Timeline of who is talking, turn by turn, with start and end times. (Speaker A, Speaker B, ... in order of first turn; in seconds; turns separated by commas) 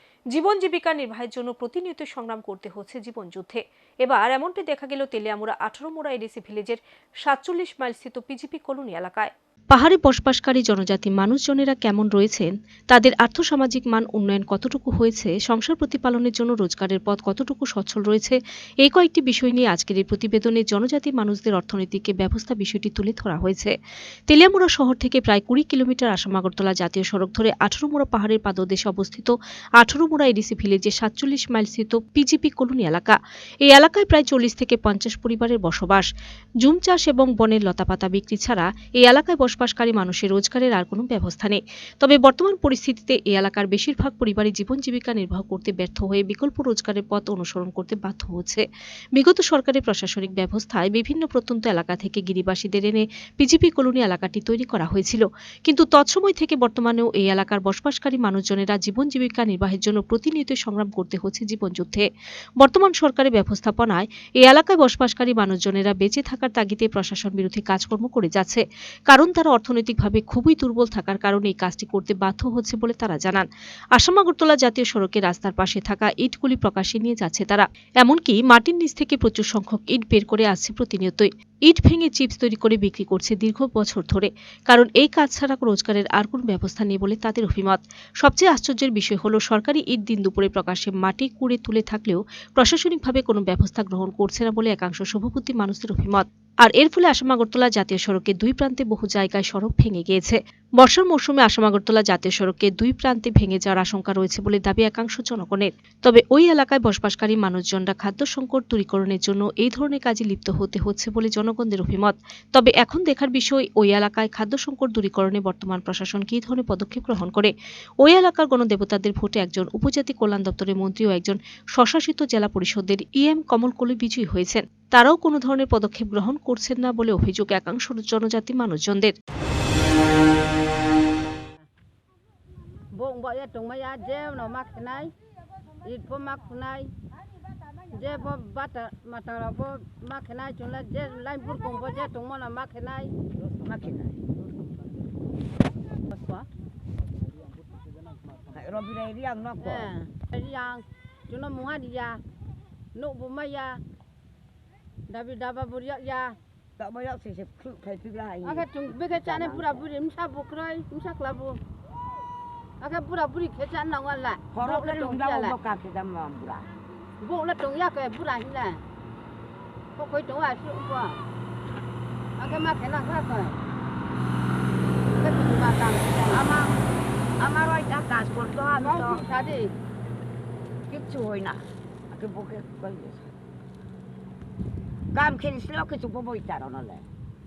Speaker A: 0.3-23.8, Speaker A: 24.3-36.1, Speaker A: 36.6-48.6, Speaker A: 49.1-62.1, Speaker A: 62.6-129.1, Speaker B: 132.9-135.1, Speaker B: 135.8-136.9, Speaker B: 137.9-143.1, Speaker C: 143.6-144.2, Speaker B: 146.1-146.5, Speaker C: 148.5-149.9, Speaker B: 149.6-152.2, Speaker B: 152.9-153.8, Speaker B: 155.1-156.4, Speaker C: 156.8-159.9, Speaker B: 158.4-161.6, Speaker B: 162.8-165.6, Speaker C: 164.5-166.7, Speaker B: 167.2-168.8, Speaker B: 170.0-171.2, Speaker B: 172.4-173.6, Speaker B: 175.1-176.4, Speaker C: 176.3-176.8, Speaker C: 177.4-179.2, Speaker B: 178.8-179.8, Speaker C: 180.9-183.3, Speaker C: 185.1-187.1